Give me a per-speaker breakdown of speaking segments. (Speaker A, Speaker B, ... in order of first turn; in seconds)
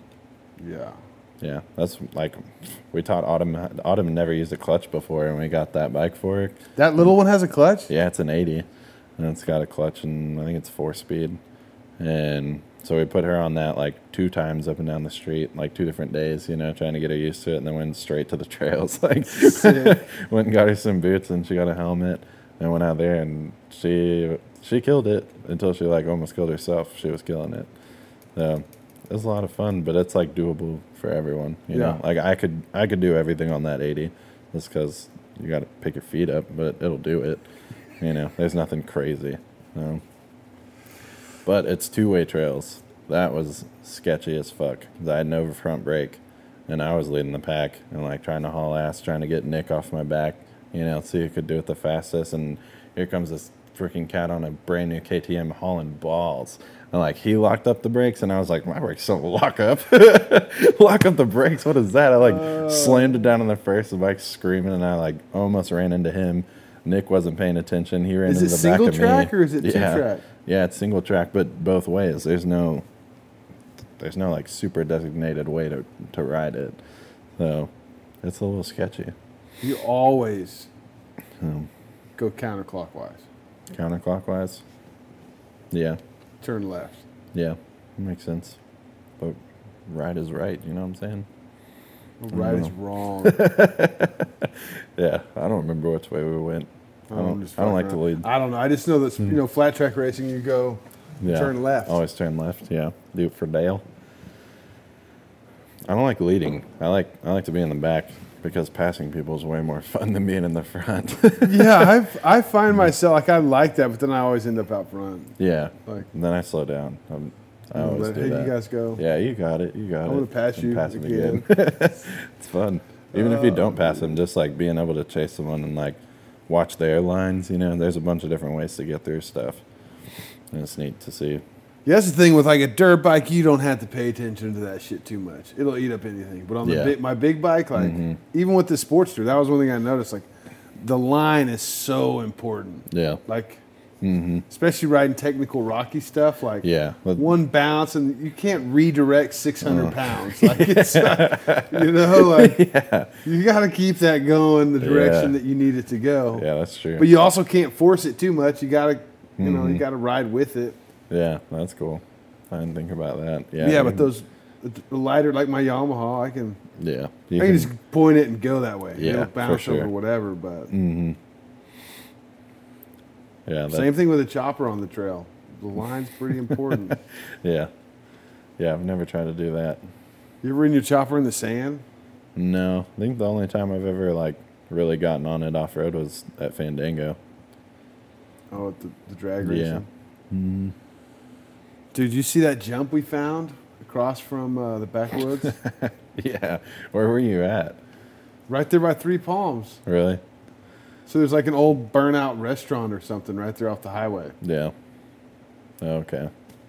Speaker A: 0.6-1.0, 6.8-7.9, 19.3-20.0, 31.7-32.0, 62.2-63.2, 68.3-70.2, 79.6-80.7, 82.2-83.2, 86.4-87.0, 92.2-93.4, 97.1-102.0, 111.4-115.3, 117.8-119.0, 120.0-121.5, 123.1-124.2, 131.9-143.6, 144.5-152.6, 153.2-156.5, 157.0-160.8, 163.6-166.6, 167.4-170.7, 173.7-177.0, 180.4-181.8, 188.5-189.9, 191.9-195.6, 198.5-199.8, 201.1-204.3
Speaker B: 1.4-6.6, 7.9-8.7, 9.2-11.4, 12.0-27.7, 28.4-37.5, 38.0-40.0, 41.5-72.9, 74.0-76.8, 77.4-79.2, 81.4-81.7, 83.7-84.6, 85.7-86.0, 87.3-88.6, 89.2-91.3, 92.3-98.3, 101.2-103.8, 105.9-111.9, 115.4-129.6, 130.5-131.4, 136.6-137.0, 137.8-138.2, 142.9-143.2, 144.0-144.4, 146.6-147.3, 149.6-153.1, 154.8-155.4, 156.3-157.1, 159.4-159.8, 161.1-164.1, 166.8-167.7, 169.0-169.9, 170.7-171.2, 173.5-173.9, 176.5-177.7, 178.6-179.8, 182.4-187.2, 189.4-190.8, 195.4-197.8, 199.9-200.2, 204.4-204.7, 205.8-206.3